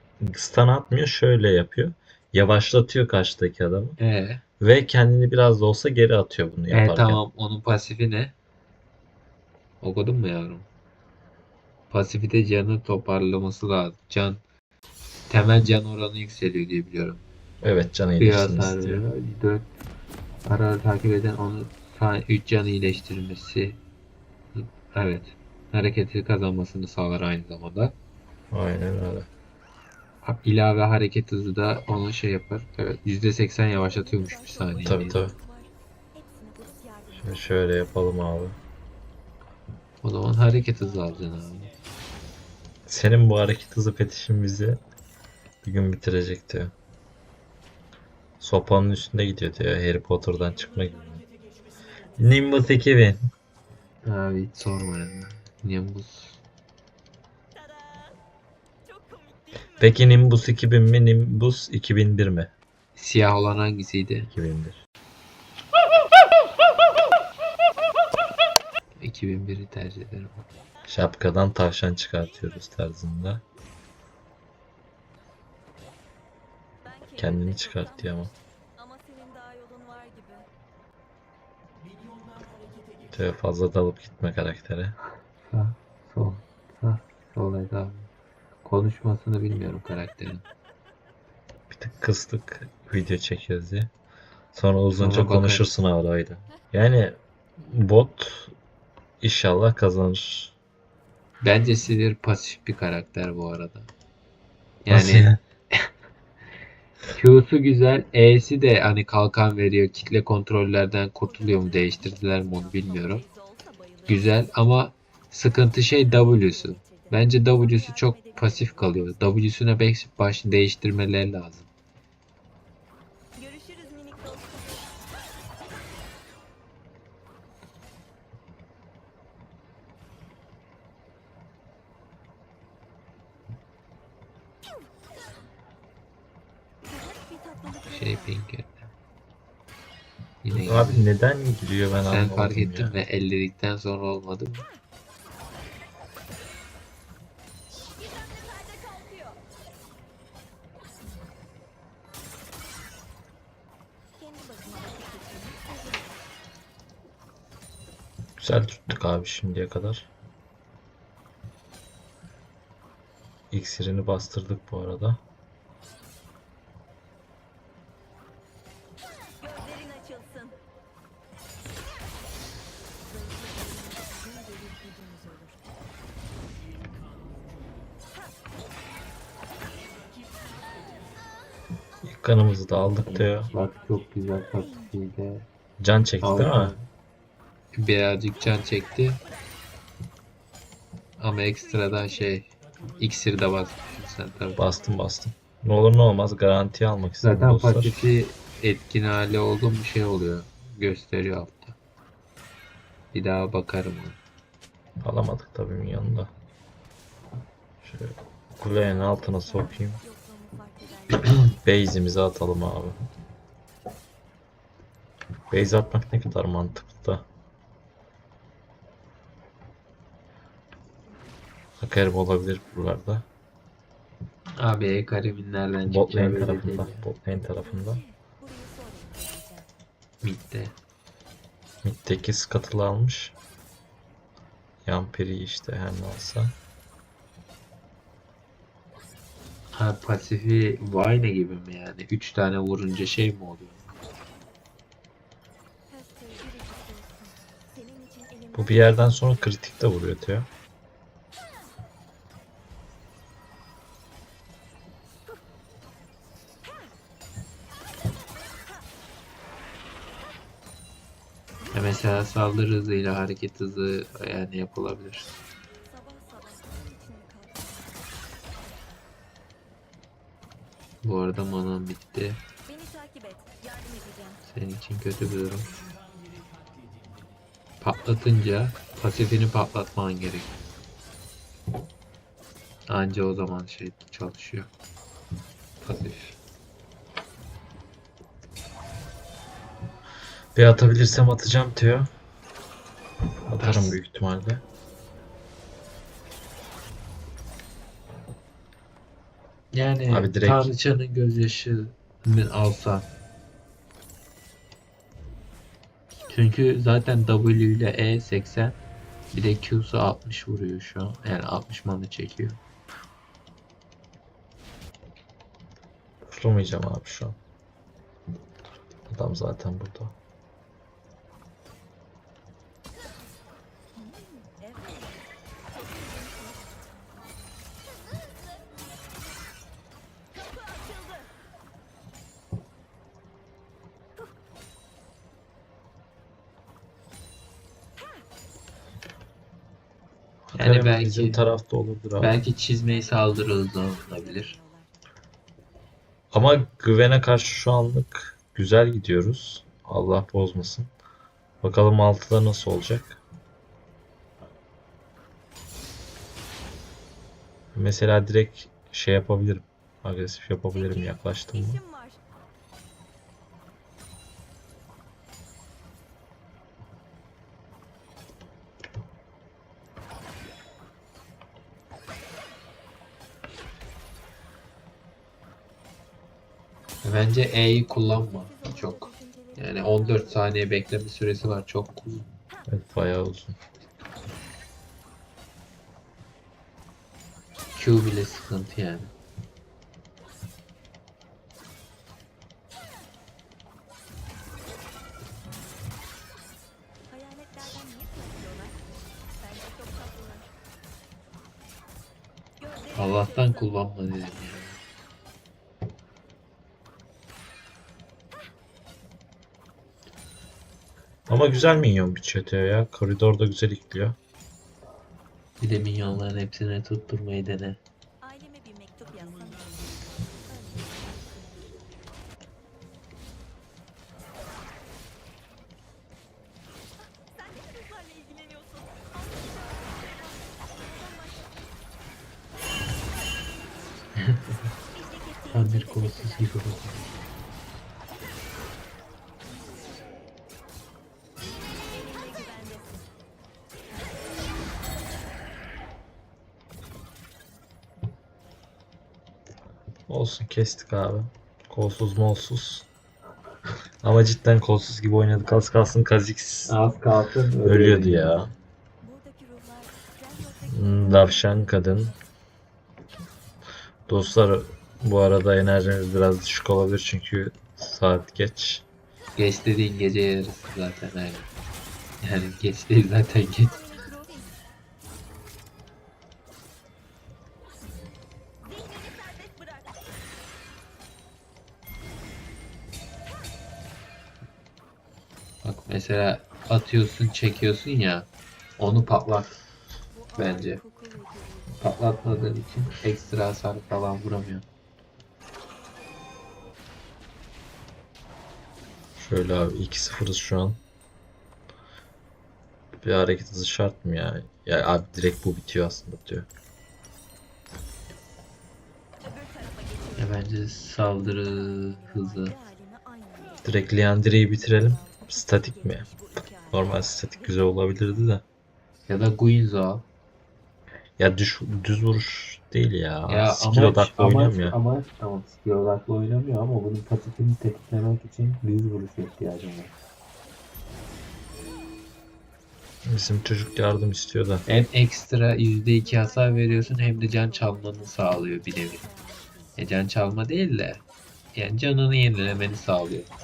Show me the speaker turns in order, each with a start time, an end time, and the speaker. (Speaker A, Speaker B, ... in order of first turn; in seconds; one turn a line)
Speaker A: 0.2-4.0
Speaker B: 4.0-4.4
Speaker A: 4.6-7.2
Speaker B: 6.7-8.3
Speaker B: 9.8-10.7
Speaker B: 11.9-14.4
Speaker B: 15.3-17.2
Speaker A: 17.6-19.0
Speaker B: 18.2-19.7
Speaker B: 20.5-23.8
Speaker B: 24.6-27.9
Speaker A: 28.5-29.3
Speaker B: 30.2-35.2
Speaker C: 34.2-35.7
Speaker A: 34.8-35.4
Speaker C: 36.2-37.4
Speaker A: 37.1-38.6
Speaker B: 40.0-41.7
Speaker A: 42.9-44.8
Speaker A: 45.6-46.7
Speaker A: 48.4-51.2
Speaker A: 52.2-53.2
Speaker B: 54.0-56.4
Speaker C: 57.6-58.1
Speaker C: 58.9-59.8
Speaker A: 59.8-62.5
Speaker B: 63.0-64.3
Speaker A: 64.3-64.8
Speaker B: 69.0-70.4
Speaker A: 70.9-73.4
Speaker C: 76.9-80.5
Speaker A: 77.2-78.3
Speaker A: 83.1-85.0
Speaker B: 85.5-88.1
Speaker B: 88.6-90.4
Speaker A: 91.7-93.9
Speaker A: 94.5-98.5
Speaker B: 95.0-95.7
Speaker A: 99.2-100.5
Speaker B: 101.4-103.9
Speaker B: 104.8-105.8
Speaker A: 104.9-105.4
Speaker B: 107.1-113.2
Speaker C: 111.5-112.3
Speaker C: 113.1-114.1
Speaker B: 114.1-121.7
Speaker C: 116.8-118.5
Speaker C: 123.4-124.8
Speaker C: 136.9-138.3
Speaker B: 137.9-138.9
Speaker B: 140.4-141.1
Speaker A: 140.5-143.0
Speaker B: 142.0-144.7
Speaker C: 148.1-149.4
Speaker C: 154.2-156.2
Speaker A: 158.4-160.1
Speaker A: 163.5-165.2
Speaker C: 169.4-170.6
Speaker C: 173.2-175.6
Speaker A: 182.0-183.5
Speaker B: 183.1-185.5
Speaker A: 185.8-186.8
Speaker B: 186.2-186.9
Speaker B: 187.7-189.2
Speaker B: 191.2-194.7
Speaker A: 194.6-198.0
Speaker B: 197.2-201.8
Speaker B: 203.1-204.2
Speaker A: 205.0-206.3
Speaker A: 207.8-210.0
Speaker C: 209.3-211.5
Speaker A: 211.6-213.0
Speaker A: 215.5-217.3
Speaker A: 221.8-223.3
Speaker B: 224.6-227.1
Speaker A: 225.9-228.0
Speaker C: 227.7-229.7
Speaker B: 230.2-230.8
Speaker A: 231.8-233.3
Speaker A: 234.8-236.6
Speaker B: 239.7-243.9
Speaker C: 245.9-249.3
Speaker A: 248.5-250.5
Speaker B: 261.7-265.3
Speaker C: 265.9-267.8
Speaker B: 271.0-272.4
Speaker C: 272.7-274.4
Speaker B: 274.4-275.8
Speaker B: 277.8-280.5
Speaker B: 282.9-284.7
Speaker B: 285.8-286.4
Speaker A: 290.6-292.1
Speaker A: 293.5-294.6
Speaker B: 293.6-294.0
Speaker B: 299.7-303.1
Speaker A: 300.1-300.7
Speaker B: 306.3-308.8
Speaker B: 309.3-312.6
Speaker A: 316.2-317.4
Speaker A: 319.1-320.1
Speaker C: 324.0-325.2
Speaker C: 325.7-326.8
Speaker C: 330.8-331.3
Speaker A: 340.5-342.4
Speaker B: 340.6-341.4
Speaker B: 342.2-344.6
Speaker C: 344.4-344.9
Speaker A: 346.3-350.9
Speaker A: 351.6-353.2
Speaker A: 357.8-361.8
Speaker C: 360.8-362.2
Speaker B: 377.0-382.3
Speaker C: 379.1-379.7
Speaker A: 382.7-383.6
Speaker B: 387.7-389.1
Speaker C: 397.1-398.8
Speaker C: 399.4-400.5
Speaker C: 402.6-403.0
Speaker B: 402.9-404.8
Speaker A: 411.3-414.2
Speaker B: 415.6-417.8
Speaker C: 418.2-421.2
Speaker C: 427.4-430.1
Speaker C: 435.0-436.6
Speaker B: 435.5-437.0
Speaker C: 442.0-443.0
Speaker A: 450.1-452.9
Speaker A: 454.0-456.8
Speaker B: 456.7-458.4
Speaker A: 457.6-458.5
Speaker C: 459.0-461.7
Speaker A: 460.7-462.1
Speaker A: 464.1-468.9
Speaker B: 469.4-471.5
Speaker B: 472.2-473.8
Speaker C: 473.7-474.6
Speaker C: 478.7-479.9
Speaker B: 485.6-488.3
Speaker B: 488.8-489.6
Speaker C: 490.3-491.7
Speaker B: 490.4-490.8
Speaker B: 491.8-494.6
Speaker A: 499.2-500.8
Speaker A: 503.0-506.5
Speaker C: 509.4-510.1
Speaker B: 510.2-512.6
Speaker C: 511.8-513.6
Speaker A: 513.6-516.1
Speaker C: 515.0-516.9
Speaker A: 516.7-518.4
Speaker B: 519.1-520.1
Speaker A: 521.2-524.8
Speaker B: 523.3-529.9
Speaker A: 533.0-534.6
Speaker B: 534.7-539.1
Speaker C: 536.3-539.6
Speaker B: 539.8-541.0
Speaker B: 541.5-543.3